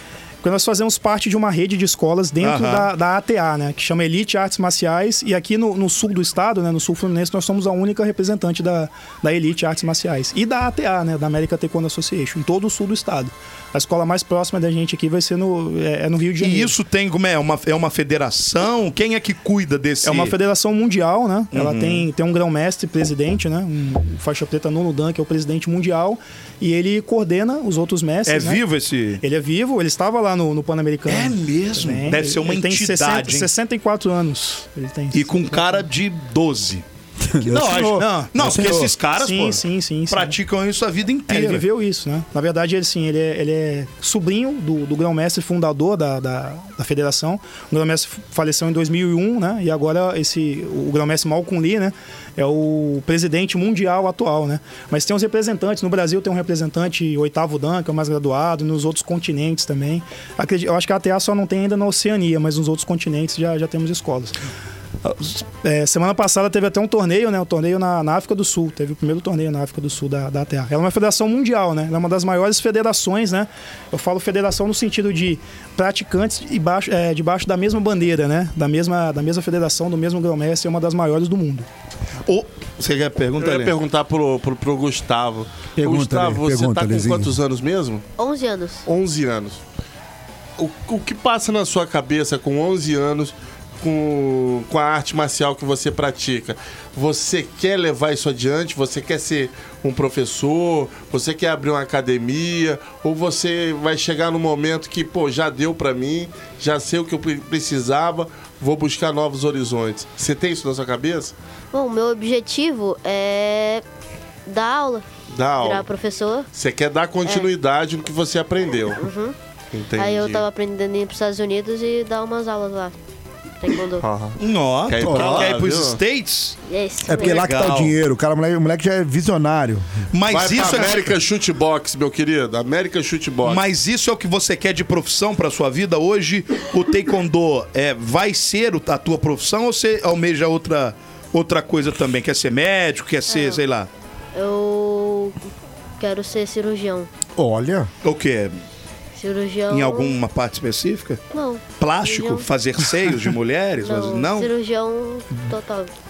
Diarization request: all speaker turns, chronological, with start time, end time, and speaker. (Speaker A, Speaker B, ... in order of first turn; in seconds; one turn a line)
Speaker A: 0.4-16.7
Speaker B: 2.4-2.9
Speaker B: 16.4-20.3
Speaker A: 20.0-28.6
Speaker B: 21.5-22.1
Speaker B: 28.3-29.2
Speaker A: 29.2-35.8
Speaker B: 31.1-33.5
Speaker B: 35.1-36.8
Speaker C: 37.2-38.9
Speaker B: 37.4-41.6
Speaker A: 37.9-38.6
Speaker A: 39.2-40.4
Speaker A: 41.3-64.4
Speaker A: 65.0-81.7
Speaker B: 82.3-83.8
Speaker D: 83.4-88.1
Speaker C: 85.8-87.3
Speaker E: 88.2-88.9
Speaker D: 88.9-89.6
Speaker D: 90.6-111.3
Speaker E: 111.7-113.8
Speaker E: 114.5-115.0
Speaker D: 115.3-115.9
Speaker E: 115.6-116.5
Speaker D: 116.5-119.1
Speaker E: 117.2-117.5
Speaker E: 119.0-119.3
Speaker D: 119.7-120.5
Speaker E: 120.0-122.9
Speaker E: 123.6-124.0
Speaker D: 124.0-126.0
Speaker B: 124.4-126.6
Speaker C: 125.0-125.5
Speaker E: 126.7-127.4
Speaker C: 127.0-130.0
Speaker B: 127.1-128.0
Speaker B: 130.1-131.1
Speaker D: 130.3-133.6
Speaker B: 133.4-143.9
Speaker E: 143.3-143.6
Speaker E: 144.3-145.4
Speaker E: 146.0-147.1
Speaker C: 147.4-147.9
Speaker B: 148.0-148.6
Speaker E: 149.2-150.2
Speaker B: 149.7-151.2
Speaker E: 151.3-152.5
Speaker B: 151.8-154.5
Speaker E: 153.8-155.9